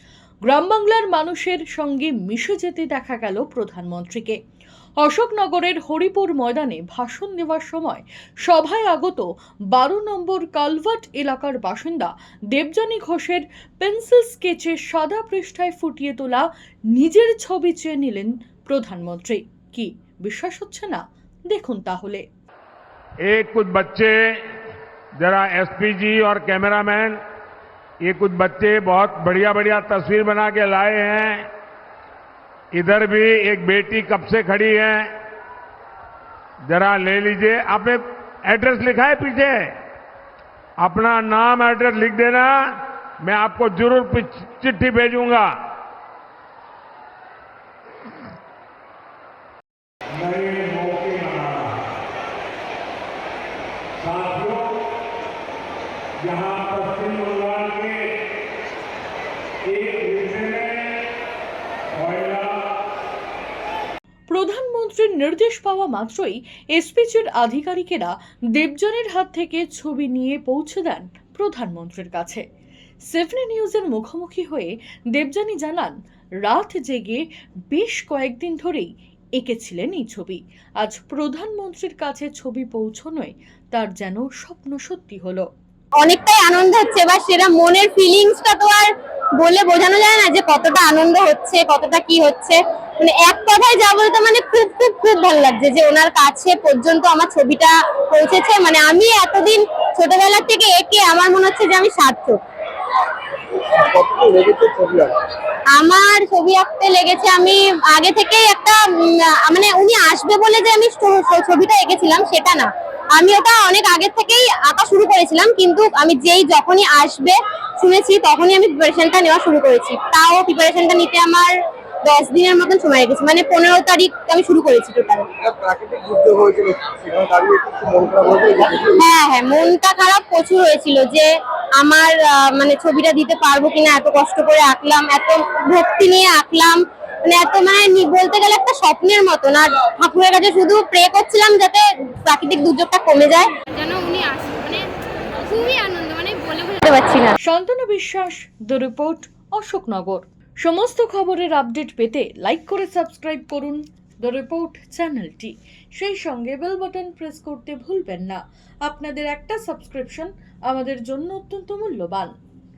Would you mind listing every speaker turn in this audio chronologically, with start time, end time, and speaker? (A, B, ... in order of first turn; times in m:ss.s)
0:00.4-0:04.4 A
0:05.0-0:22.2 A
0:23.2-0:24.1 B
0:25.2-0:27.2 B
0:28.0-0:31.4 B
0:32.7-0:35.1 B
0:36.6-0:39.7 B
0:40.8-0:45.5 B
0:50.2-0:51.8 B
0:54.0-0:54.8 B
0:56.2-0:58.2 B
0:59.6-1:01.0 B
1:01.9-1:02.8 B
1:04.3-1:12.4 A
1:13.1-1:25.5 A
1:26.0-1:42.4 C
1:43.9-1:45.1 D
1:45.8-2:01.5 C
2:02.0-2:05.3 C
2:05.4-2:09.0 D
2:08.7-2:23.5 C
2:23.7-2:24.9 E
2:25.4-2:26.8 E
2:26.8-2:27.3 C
2:27.4-2:42.3 A